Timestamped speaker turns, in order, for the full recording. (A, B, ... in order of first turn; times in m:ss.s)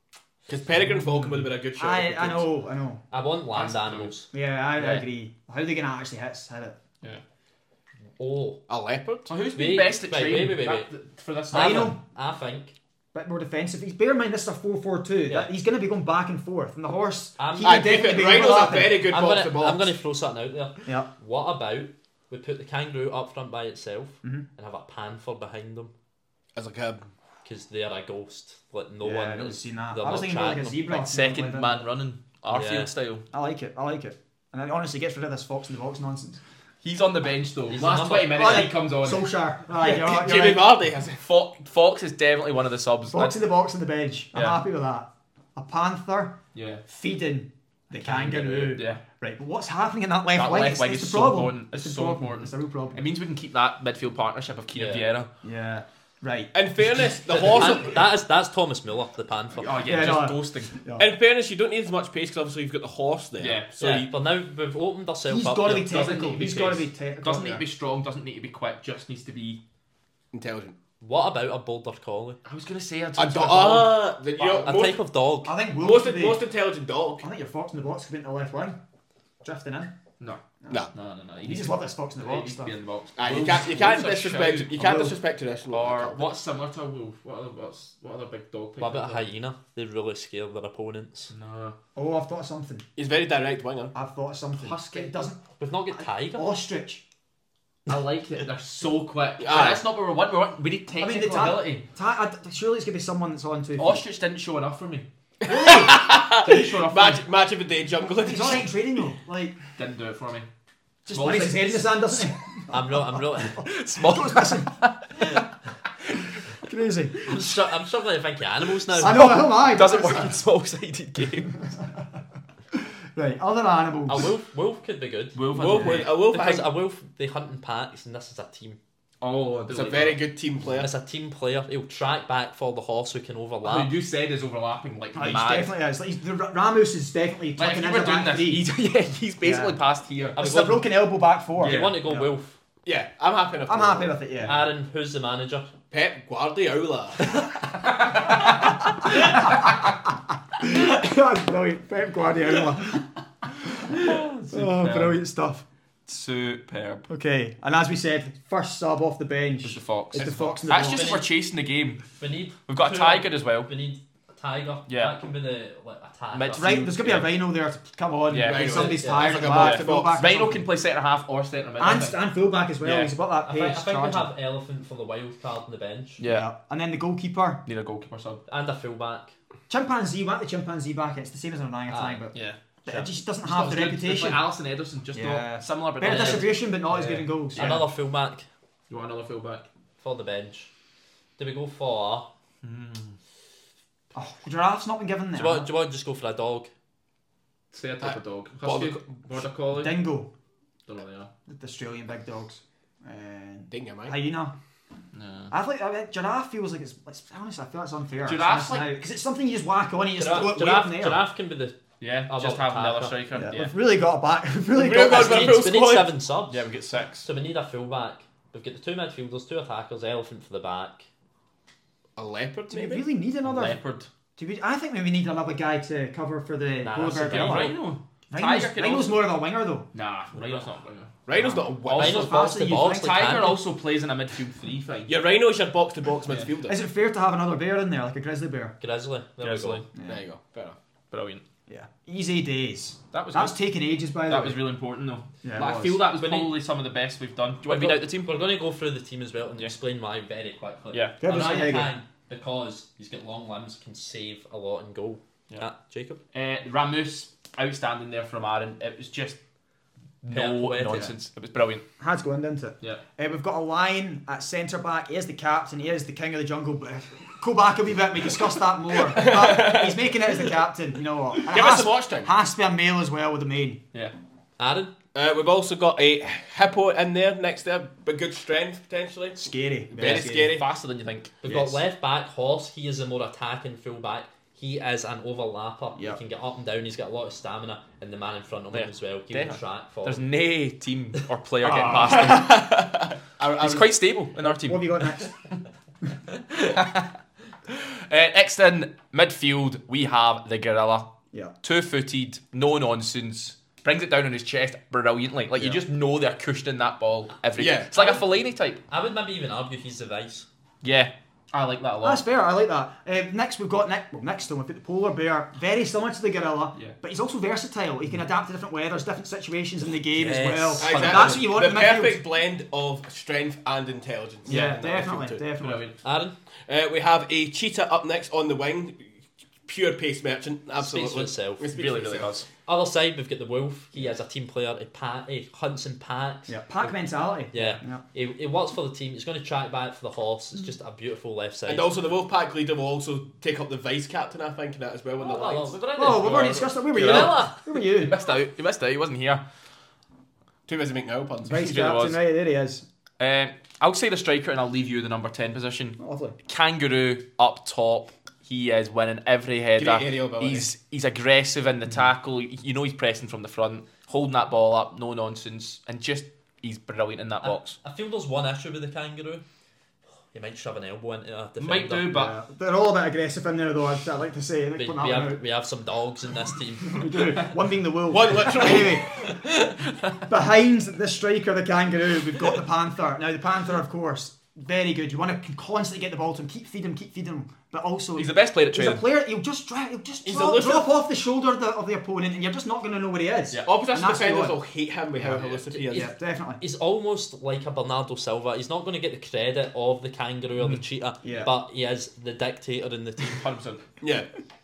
0:00.5-0:02.5 A
0:01.0-0:01.4 B
0:01.8-0:03.0 C
0:03.1-0:04.3 D
0:03.6-0:04.2 B
0:04.3-0:06.8 C
0:04.8-0:05.0 B
0:08.2-0:08.6 D
0:08.7-0:09.3 A
0:09.3-0:12.0 B
0:09.5-0:10.9 D
0:11.5-0:12.7 D
0:11.5-0:12.0 C
0:13.1-0:19.1 C
0:17.4-0:18.0 D
0:17.6-0:19.9 A
0:19.1-0:25.9 D
0:26.5-0:27.0 A
0:27.4-0:30.8 D
0:29.0-0:31.9 C
0:30.9-0:33.2 B
0:32.5-0:32.9 D
0:33.3-0:36.4 C
0:36.8-0:39.3 B
0:37.7-0:38.7 D
0:38.3-0:40.7 C
0:39.8-0:41.2 A
0:41.2-0:43.4 B
0:43.1-0:53.0 C
0:46.5-0:46.8 B
0:48.0-0:49.0 B
0:50.4-0:55.3 B
0:54.7-0:55.1 D
0:55.4-0:56.5 C
0:56.5-0:58.1 A
0:57.4-0:59.8 D
0:59.5-1:00.8 B
0:59.8-1:01.1 C
1:01.0-1:04.1 A
1:03.4-1:03.7 B
1:03.8-1:06.1 D
1:05.3-1:07.6 C
1:05.9-1:09.6 B
1:10.3-1:10.8 A
1:11.0-1:12.4 D
1:12.4-1:14.6 B
1:13.2-1:15.0 A
1:14.4-1:15.6 D
1:15.4-1:16.4 C
1:15.8-1:17.3 A
1:17.2-1:18.8 C
1:19.4-1:20.0 C
1:20.6-1:20.9 C
1:20.9-1:25.0 B
1:21.4-1:22.8 C
1:23.2-1:26.3 A
1:24.8-1:25.2 C
1:25.7-1:29.3 B
1:28.8-1:31.3 D
1:31.3-1:31.8 B
1:32.0-1:32.8 C
1:33.0-1:33.9 A
1:33.9-1:35.4 C
1:34.6-1:35.3 B
1:35.6-1:36.5 D
1:36.3-1:37.0 C
1:37.9-1:41.9 B
1:39.4-1:39.8 A
1:41.0-1:44.0 C
1:43.8-1:45.1 B
1:45.4-1:48.7 A
1:45.4-1:46.0 C
1:46.3-1:47.2 B
1:48.2-1:49.6 C
1:49.8-1:50.5 B
1:51.1-1:54.8 C
1:51.1-1:52.2 B
1:52.7-1:53.6 D
1:53.6-1:55.3 B
1:56.6-1:57.4 C
1:57.3-1:59.4 D
1:58.9-2:00.4 C
1:59.0-2:01.6 B
2:03.2-2:04.3 C
2:04.1-2:08.8 D
2:05.4-2:06.1 B
2:05.5-2:06.7 A
2:09.2-2:10.2 B
2:09.7-2:10.9 A
2:10.7-2:13.9 D
2:13.6-2:15.8 B
2:15.2-2:18.6 C
2:17.6-2:20.4 B
2:19.4-2:19.8 C
2:20.4-2:20.9 D
2:20.4-2:22.3 C
2:21.6-2:22.6 D
2:21.6-2:22.0 B
2:22.8-2:24.2 A
2:23.7-2:24.7 C
2:24.4-2:25.7 D
2:25.9-2:27.3 A
2:29.1-2:29.8 C
2:30.6-2:33.1 C
2:33.7-2:35.6 C
2:34.4-2:35.2 B
2:36.1-2:37.1 B
2:37.1-2:41.1 C
2:39.6-2:42.0 B
2:40.2-2:40.8 A
2:40.8-2:41.3 D
2:42.2-2:46.8 D
2:42.7-2:43.7 B
2:44.9-2:45.2 B
2:46.3-2:47.3 B
2:46.6-2:50.7 C
2:48.3-2:52.2 B
2:48.4-2:50.2 A
2:49.0-2:49.4 D
2:51.8-2:54.3 C
2:52.8-2:53.1 B
2:53.4-2:56.2 D
2:56.2-2:56.5 B
2:56.2-2:57.6 C
2:57.7-2:58.4 B
2:58.5-2:59.3 D
2:59.7-3:04.4 C
3:01.9-3:02.3 D
3:02.3-3:02.6 B
3:02.9-3:03.1 D
3:03.4-3:07.8 B
3:05.1-3:07.8 C
3:06.0-3:06.6 D
3:07.6-3:08.5 D
3:08.9-3:09.7 B
3:10.0-3:10.7 D
3:11.4-3:12.3 D
3:12.6-3:13.2 B
3:14.1-3:15.7 C
3:15.4-3:16.7 D
3:17.7-3:20.0 B
3:18.0-3:19.1 A
3:19.8-3:20.3 C
3:20.9-3:21.3 B
3:21.5-3:24.5 C
3:23.7-3:24.2 A
3:25.1-3:25.5 B
3:25.5-3:31.2 C
3:28.2-3:29.0 B
3:30.2-3:33.2 D
3:32.0-3:33.7 B
3:33.3-3:35.6 C
3:34.7-3:36.2 A
3:35.1-3:36.6 D
3:36.5-3:37.3 B
3:37.2-3:41.1 D
3:42.2-3:43.0 A
3:42.7-3:43.8 C
3:43.4-3:44.1 B
3:44.4-3:47.8 C
3:46.8-3:47.8 D
3:47.3-3:49.2 B
3:48.3-3:49.9 C
3:49.9-3:51.2 B
3:51.3-3:52.2 A
3:51.4-3:53.2 C
3:51.8-3:55.1 B
3:52.0-3:53.6 D
3:55.1-3:56.8 A
3:56.7-3:58.8 C
3:58.8-3:59.8 D
3:59.4-3:59.9 B
4:00.0-4:00.2 C
4:00.0-4:00.8 A
4:01.1-4:01.4 B
4:01.7-4:04.7 C
4:03.1-4:03.6 B
4:04.3-4:08.3 B
4:05.4-4:06.0 C
4:06.1-4:06.6 D
4:07.7-4:16.2 D
4:10.9-4:11.2 B
4:11.2-4:11.9 C
4:16.3-4:19.4 B
4:20.2-4:21.9 B
4:20.3-4:21.1 D
4:20.9-4:21.1 C
4:22.0-4:33.8 C
4:29.0-4:30.2 A
4:31.4-4:32.3 A
4:34.6-4:34.9 D
4:35.1-4:40.7 A
4:39.4-4:40.6 C
4:40.0-4:41.8 B
4:41.4-4:50.2 D
4:48.7-4:55.0 B
4:51.6-4:52.5 C
4:53.4-4:54.0 A
4:54.4-4:55.3 C
4:56.5-4:57.1 B
4:57.7-5:01.1 B
5:01.6-5:08.8 B
5:07.6-5:08.2 A
5:08.9-5:10.5 D
5:10.8-5:12.2 B
5:12.0-5:22.2 C
5:20.1-5:21.5 B
5:20.8-5:25.4 A
5:24.5-5:25.8 C
5:25.6-5:26.0 B
5:26.0-5:26.4 D
5:26.7-5:32.3 A
5:30.8-5:31.6 D
5:31.7-5:32.5 B
5:32.7-5:36.6 D
5:36.5-5:38.0 C
5:37.5-5:41.9 D
5:41.7-5:45.8 A
5:45.2-5:47.6 D
5:45.8-5:49.4 B
5:46.0-5:48.1 C
5:50.7-5:51.7 A
5:51.4-5:52.9 C
5:51.5-5:52.2 B
5:53.2-6:07.8 B
5:56.0-5:56.4 C
5:59.8-6:00.7 A
6:07.4-6:09.4 D
6:10.3-6:12.2 D
6:11.6-6:12.4 B
6:12.1-6:15.4 C
6:14.8-6:17.4 D
6:16.9-6:19.2 C
6:18.1-6:19.1 A
6:20.3-6:34.6 C
6:28.2-6:29.0 B
6:30.2-6:30.9 A
6:33.7-6:36.1 A
6:35.2-6:36.6 C
6:35.7-6:43.4 D
6:41.2-6:41.5 C
6:43.3-6:43.8 B
6:44.0-6:44.3 A